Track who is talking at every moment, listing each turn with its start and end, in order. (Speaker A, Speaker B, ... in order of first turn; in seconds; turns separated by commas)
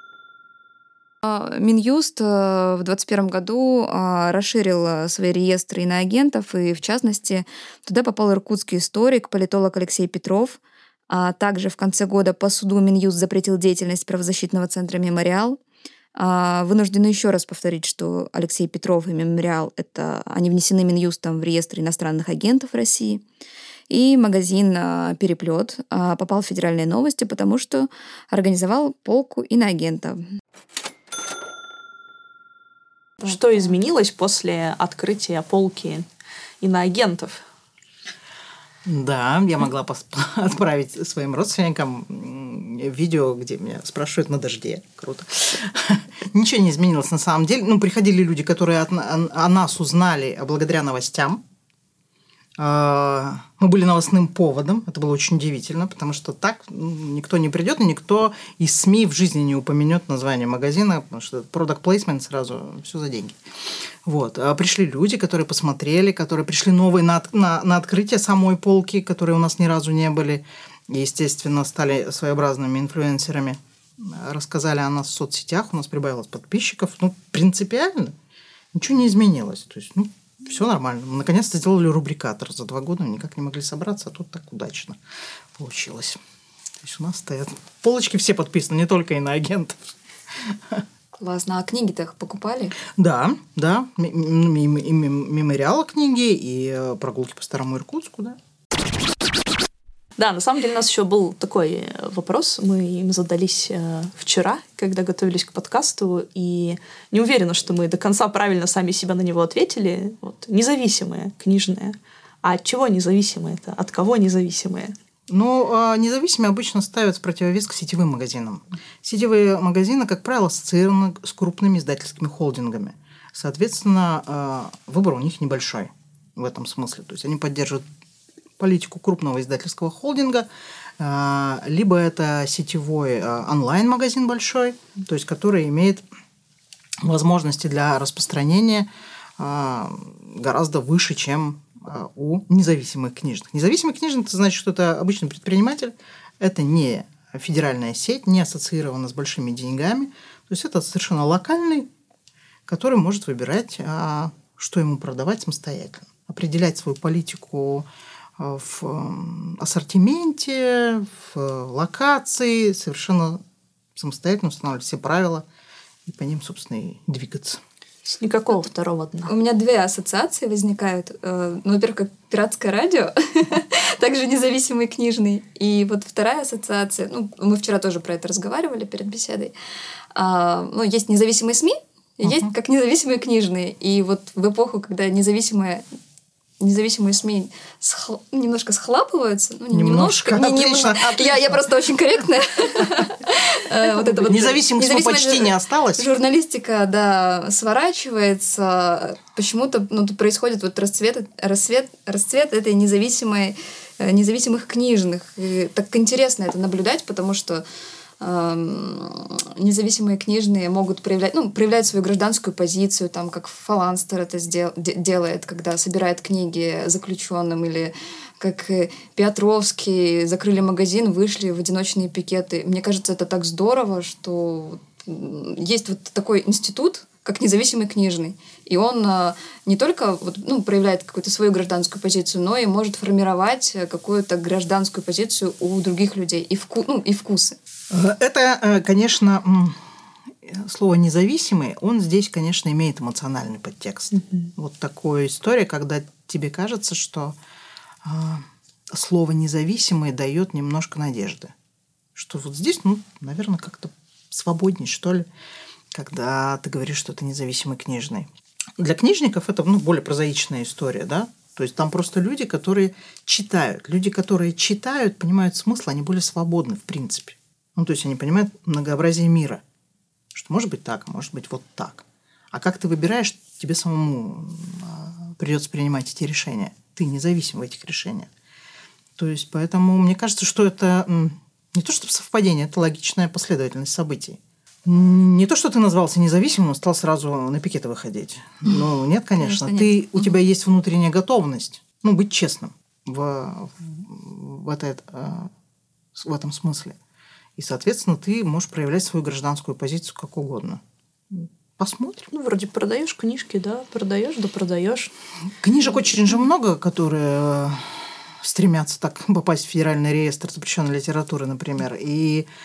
Speaker A: 1.2-15.6, Speaker A: 16.2-23.2, Speaker A: 23.9-30.2, Speaker B: 33.2-36.1, Speaker B: 36.6-37.4, Speaker C: 38.9-51.4, Speaker C: 52.6-78.2, Speaker C: 78.7-85.0, Speaker C: 85.5-86.2, Speaker C: 86.8-89.8, Speaker C: 90.4-90.8, Speaker A: 91.1-92.8, Speaker C: 92.9-98.4, Speaker B: 100.2-115.0, Speaker C: 115.3-127.8, Speaker C: 128.6-130.5, Speaker C: 131.0-136.0, Speaker C: 137.0-151.9, Speaker C: 152.7-157.9, Speaker C: 158.4-163.4, Speaker C: 163.9-165.4, Speaker C: 166.1-167.6, Speaker B: 168.1-169.3, Speaker A: 169.3-179.5, Speaker A: 180.2-185.8, Speaker C: 182.2-182.5, Speaker A: 186.6-207.6, Speaker C: 189.7-191.9, Speaker C: 193.8-196.1, Speaker A: 208.2-237.6, Speaker C: 237.9-239.8, Speaker C: 240.4-247.4, Speaker B: 244.2-244.5, Speaker C: 248.0-251.5, Speaker C: 252.2-255.3, Speaker C: 255.9-269.6, Speaker C: 270.3-278.3, Speaker C: 279.2-295.5, Speaker A: 289.4-290.0, Speaker C: 296.1-297.0, Speaker C: 297.6-302.3, Speaker B: 302.3-305.1, Speaker C: 305.6-312.5